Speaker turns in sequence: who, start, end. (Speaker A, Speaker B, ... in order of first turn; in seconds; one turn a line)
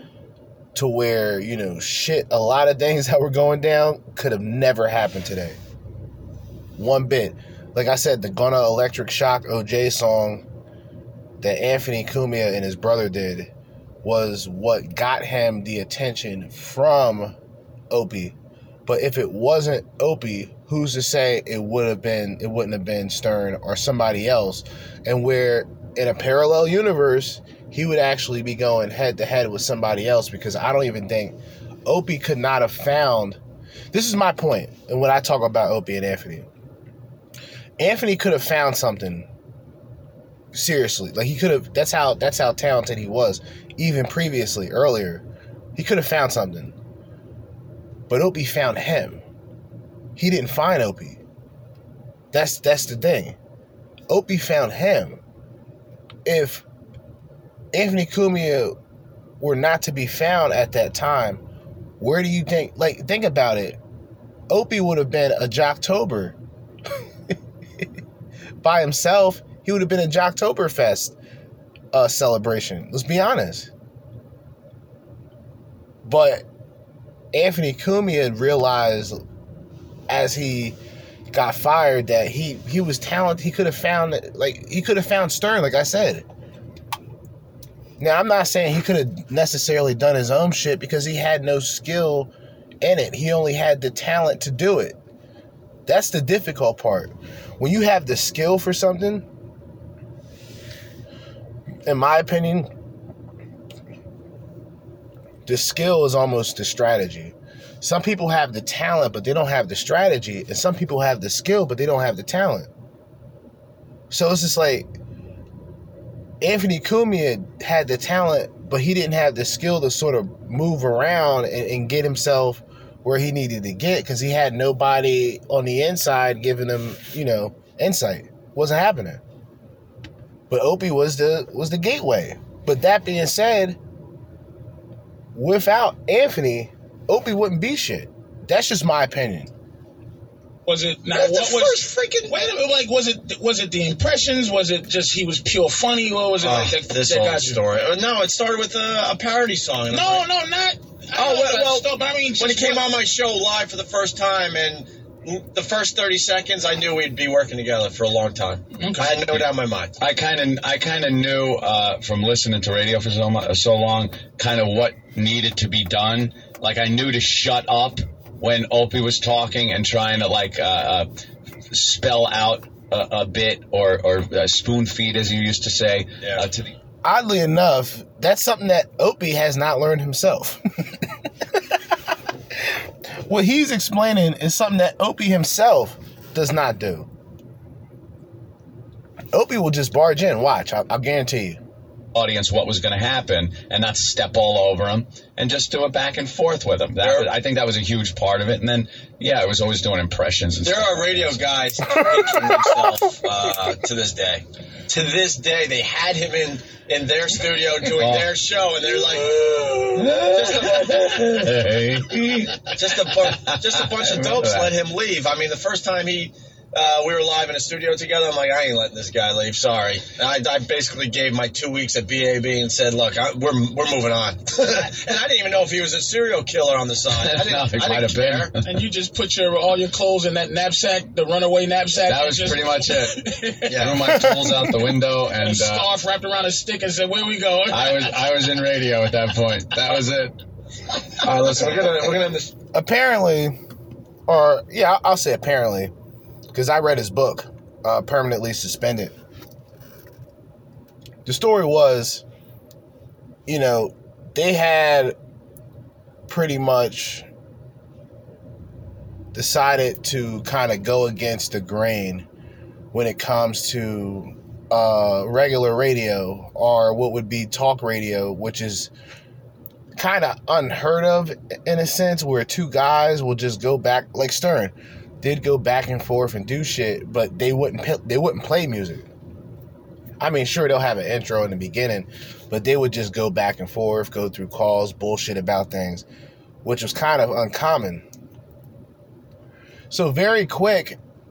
Speaker A: 0.7-5.6
Speaker A: 6.8-10.4
Speaker A: 11.4-13.5
Speaker A: 14.0-17.3
Speaker A: 17.9-33.4
Speaker A: 33.9-36.5
Speaker A: 37.8-39.3
Speaker A: 40.5-46.7
Speaker A: 48.1-49.2
Speaker A: 50.1-51.2
Speaker A: 52.3-53.4
Speaker A: 54.1-55.2
Speaker A: 56.2-56.6
Speaker A: 57.7-58.8
Speaker A: 59.4-61.4
Speaker A: 62.0-63.8
Speaker A: 64.5-66.3
Speaker A: 67.3-67.8
Speaker A: 68.6-71.2
Speaker A: 71.9-73.7
Speaker A: 76.0-76.4
Speaker A: 77.3-79.2
Speaker A: 80.1-80.8
Speaker A: 81.3-86.2
Speaker A: 88.0-92.3
Speaker A: 92.8-95.0
Speaker A: 95.8-99.2
Speaker A: 101.8-102.7
Speaker A: 105.5-112.7
Speaker A: 114.1-114.9
Speaker A: 116.4-129.2
Speaker A: 130.5-133.8
Speaker A: 135.3-139.5
Speaker B: 140.7-147.6
Speaker C: 141.1-142.5
Speaker C: 146.4-150.2
Speaker B: 149.9-152.9
Speaker C: 151.2-159.9
Speaker B: 158.8-159.3
Speaker D: 160.0-171.1
Speaker D: 171.7-176.7
Speaker A: 177.0-180.6
Speaker A: 183.3-187.1
Speaker A: 189.3-191.6
Speaker D: 192.1-201.4
Speaker C: 197.0-197.3
Speaker C: 200.6-209.5
Speaker D: 207.8-208.3
Speaker D: 210.0-214.8
Speaker C: 210.1-211.3
Speaker C: 212.7-228.5
Speaker D: 227.1-228.6
Speaker B: 228.6-233.8
Speaker D: 232.0-233.2
Speaker C: 233.7-234.1
Speaker D: 233.7-235.9
Speaker B: 235.3-238.2
Speaker D: 237.7-240.3
Speaker C: 241.2-242.5
Speaker A: 242.7-243.6
Speaker A: 244.3-245.9
Speaker A: 246.5-249.1
Speaker A: 251.2-252.2
Speaker A: 253.4-255.1
Speaker A: 256.3-257.2
Speaker A: 259.3-262.2
Speaker A: 262.9-268.9
Speaker A: 269.9-279.1
Speaker A: 280.2-286.0
Speaker A: 286.6-288.0
Speaker A: 289.9-291.0